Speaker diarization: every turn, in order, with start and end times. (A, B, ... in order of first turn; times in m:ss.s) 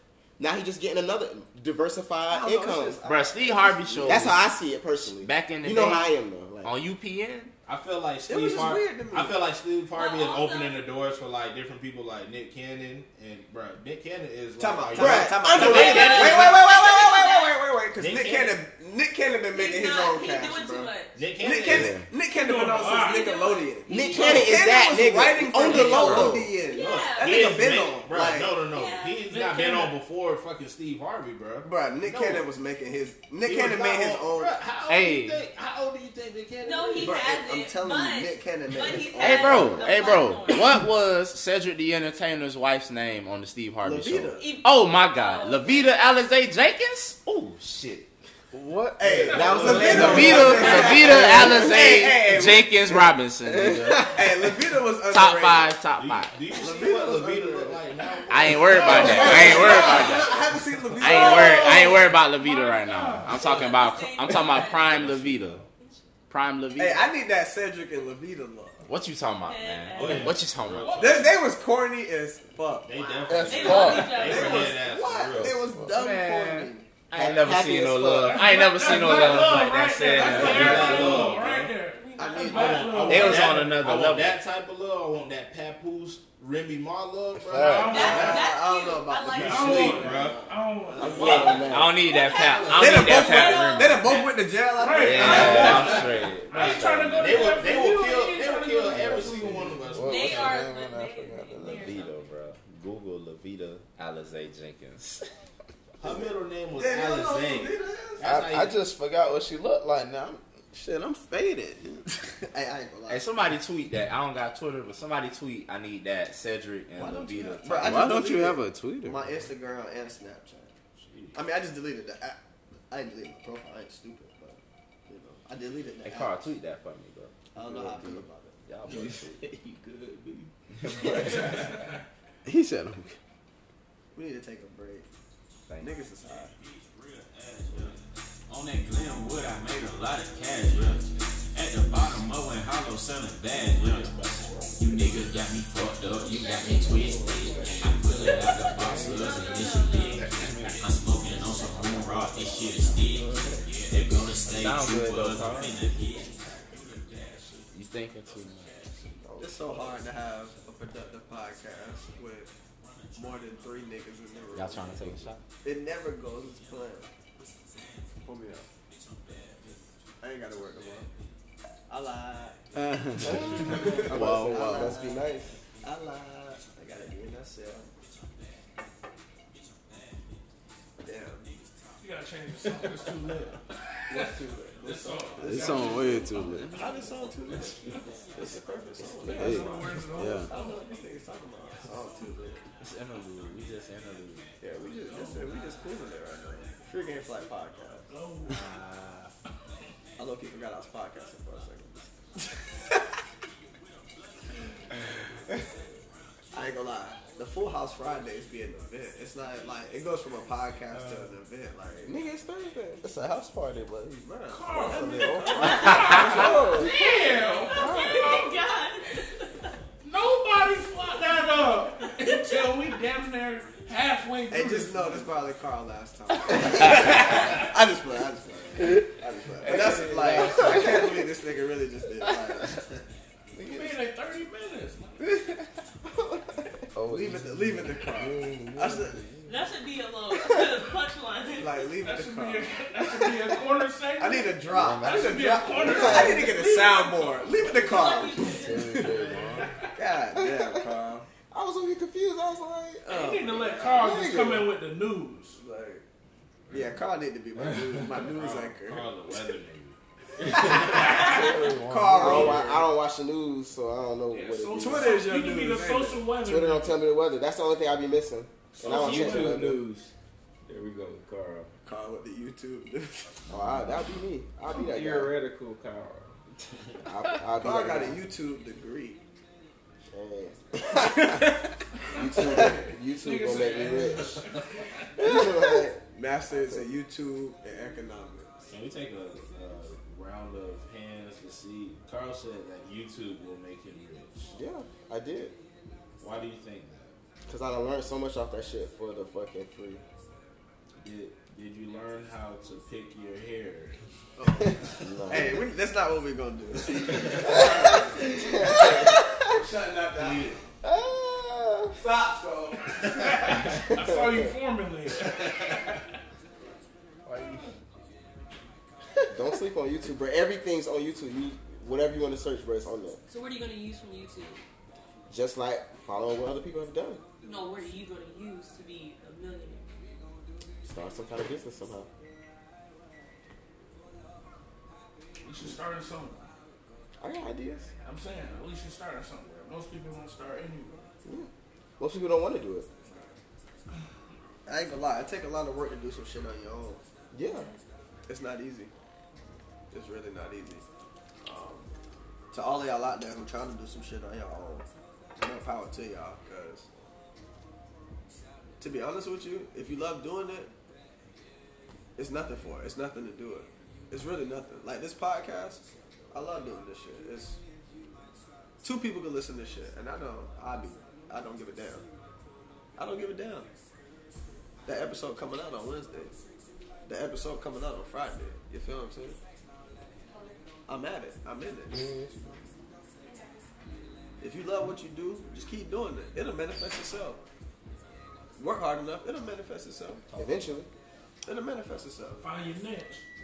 0:00.4-0:03.0 A
0:02.3-0:04.4 B
0:03.0-0:04.4 C
0:04.0-0:06.8 A
0:05.2-0:07.5 C
0:07.6-0:16.7 D
0:08.3-0:09.5 B
0:09.9-0:10.8 E
0:14.6-0:28.6 B
0:14.9-0:16.4 A
0:15.6-0:17.6 E
0:18.0-0:18.6 D
0:19.5-0:21.2 E
0:21.1-0:22.0 D
0:21.6-0:22.1 F
0:22.3-0:23.2 G
0:22.9-0:24.3 E
0:23.9-0:26.5 A
0:23.9-0:24.5 G
0:25.7-0:32.5 D
0:26.6-0:27.6 E
0:28.7-0:29.2 E
0:29.2-0:30.0 G
0:31.6-0:34.6 B
0:33.4-0:37.2 D
0:34.9-0:35.4 C
0:36.6-0:40.8 E
0:37.0-0:39.9 B
0:39.2-0:48.1 C
0:43.8-0:44.5 B
0:44.4-0:45.9 E
0:48.5-0:49.7 F
0:49.0-0:53.1 B
0:49.2-0:51.0 G
0:49.3-0:51.6 A
0:49.3-0:50.4 D
0:49.9-0:54.2 C
0:53.5-0:54.1 F
0:54.1-0:55.8 B
0:55.1-0:56.3 C
0:55.9-1:00.5 D
0:56.5-0:57.9 B
0:58.3-1:00.3 C
0:58.6-1:02.1 B
0:58.9-1:00.3 G
1:00.9-1:03.8 G
1:01.0-1:05.6 C
1:03.3-1:05.1 E
1:04.6-1:05.7 D
1:05.8-1:06.1 E
1:06.3-1:07.1 C
1:06.8-1:08.9 B
1:08.9-1:11.1 C
1:09.4-1:10.4 E
1:09.9-1:11.3 D
1:10.8-1:11.4 G
1:11.0-1:16.9 B
1:12.8-1:15.6 D
1:13.3-1:14.2 F
1:13.5-1:14.8 E
1:15.4-1:16.0 F
1:15.9-1:21.1 C
1:17.1-1:18.6 A
1:18.2-1:23.7 G
1:18.9-1:21.7 D
1:20.8-1:21.4 B
1:21.8-1:23.5 E
1:22.2-1:23.0 B
1:22.5-1:28.4 D
1:23.1-1:24.4 C
1:27.3-1:28.0 F
1:27.6-1:28.5 G
1:27.9-1:29.6 E
1:27.9-1:31.5 B
1:29.4-1:31.7 G
1:29.4-1:30.5 D
1:31.0-1:32.0 A
1:31.2-1:34.2 C
1:31.3-1:34.3 E
1:32.3-1:33.0 D
1:32.8-1:36.1 B
1:34.7-1:39.9 G
1:35.0-1:37.6 C
1:35.2-1:40.6 D
1:39.0-1:41.9 F
1:40.0-1:42.2 E
1:41.6-1:45.3 C
1:46.0-1:48.8 D
1:46.0-1:48.3 B
1:48.2-1:52.0 F
1:52.4-1:53.2 B
1:53.1-1:58.0 C
1:57.0-2:00.7 B
1:57.7-1:59.3 F
2:01.0-2:01.4 D
2:01.3-2:02.4 B
2:02.9-2:06.5 B
2:06.0-2:07.5 C
2:07.5-2:08.6 B
2:08.6-2:09.3 C
2:08.9-2:10.5 H
2:10.8-2:11.8 C
2:11.2-2:12.0 G
2:12.4-2:13.2 F
2:14.1-2:15.1 B
2:15.8-2:16.5 B
2:16.7-2:18.0 D
2:18.5-2:24.1 I
2:23.6-2:24.8 D
2:24.8-2:36.4 I
2:27.6-2:27.9 D
2:29.2-2:30.1 E
2:30.1-2:30.9 D
2:33.7-2:34.0 D
2:34.5-2:35.8 C
2:37.7-2:38.9 C
2:39.2-2:39.5 A
2:39.4-2:42.5 B
2:43.1-2:47.1 B
2:44.5-2:45.4 C
2:48.2-2:48.7 B
2:50.2-2:51.1 B
2:51.9-2:52.6 B
2:52.7-2:55.0 F
2:53.2-2:57.9 B
2:53.7-2:55.6 A
3:01.0-3:01.5 B
3:02.0-3:06.9 G
3:04.1-3:12.6 B
3:05.4-3:06.9 F
3:09.2-3:10.9 G
3:09.2-3:10.5 F
3:12.8-3:14.5 C
3:14.6-3:18.1 B
3:15.1-3:15.5 G
3:18.1-3:18.6 G
3:18.5-3:19.3 C
3:20.2-3:22.0 B
3:26.5-3:32.1 B
3:30.9-3:31.3 D
3:32.0-3:33.0 A
3:33.0-3:36.9 B
3:34.5-3:38.6 G
3:34.9-3:37.0 A
3:37.0-3:39.7 E
3:37.7-3:38.4 A
3:40.0-3:45.3 G
3:42.0-3:43.0 E
3:44.5-3:53.0 B
3:46.8-3:47.5 G
3:49.6-3:51.2 F
3:53.6-3:54.0 F
3:53.7-3:55.3 G
3:56.1-3:56.4 A
3:56.9-3:59.5 F
3:57.1-3:59.2 B
3:59.5-4:01.9 E
4:01.6-4:02.9 B
4:02.0-4:07.7 G
4:04.2-4:09.2 B
4:04.7-4:06.1 F
4:06.1-4:06.4 A
4:07.6-4:09.1 E
4:08.5-4:09.7 F
4:09.4-4:09.9 G
4:09.9-4:11.3 B
4:10.4-4:10.8 A
4:11.5-4:13.0 A
4:13.0-4:14.1 B
4:13.0-4:15.6 G
4:14.0-4:14.7 A
4:15.6-4:16.0 B
4:16.7-4:17.0 D
4:16.7-4:19.4 B
4:18.1-4:21.0 D
4:20.5-4:22.9 B
4:20.8-4:21.5 G
4:21.1-4:22.6 F
4:21.2-4:21.5 E
4:22.2-4:25.2 A
4:24.3-4:27.0 G
4:24.8-4:26.3 B
4:26.4-4:29.8 A
4:28.7-4:29.6 G
4:28.8-4:30.1 H
4:30.6-4:31.7 H
4:31.8-4:33.4 B
4:33.5-4:35.3 A
4:34.7-4:36.3 H
4:37.0-4:38.2 A
4:37.6-4:39.2 B
4:40.1-4:41.3 A
4:42.1-4:44.4 A
4:42.2-4:44.7 G
4:42.4-4:42.8 B
4:45.2-4:46.0 A
4:45.3-4:48.6 B
4:46.5-4:46.8 A
4:48.7-4:54.6 D
4:54.5-4:55.6 A
4:56.2-4:57.1 D
4:57.5-5:00.0 A
5:01.0-5:04.0 D
5:04.4-5:10.6 B
5:04.9-5:05.3 D
5:05.0-5:05.6 A
5:06.8-5:07.8 D
5:07.6-5:09.4 A
5:10.1-5:10.6 D
5:10.8-5:11.9 A
5:11.9-5:13.2 B
5:13.0-5:13.8 D
5:13.1-5:15.9 G
5:15.2-5:15.9 D
5:19.3-5:23.2 A
5:23.3-5:24.6 E
5:25.3-5:27.2 A
5:27.4-5:29.8 E
5:30.8-5:32.1 A
5:35.4-5:36.5 G
5:37.2-5:37.9 A
5:38.0-5:41.1 G
5:41.2-5:42.9 A
5:44.6-5:47.0 B
5:47.3-5:47.7 A
5:48.3-5:48.9 B
5:49.9-5:50.8 B
5:51.4-5:51.9 B
5:52.5-5:54.9 B
5:55.4-5:56.9 B
5:58.8-6:00.7 B
6:02.2-6:07.6 B
6:08.8-6:12.0 B
6:13.0-6:13.7 B
6:14.8-6:16.4 B
6:17.0-6:19.4 B
6:20.2-6:20.6 E
6:20.9-6:22.0 B
6:23.2-6:23.5 E
6:24.4-6:27.4 B
6:28.6-6:30.2 B
6:30.4-6:30.9 A
6:31.4-6:32.4 B
6:32.4-6:33.2 G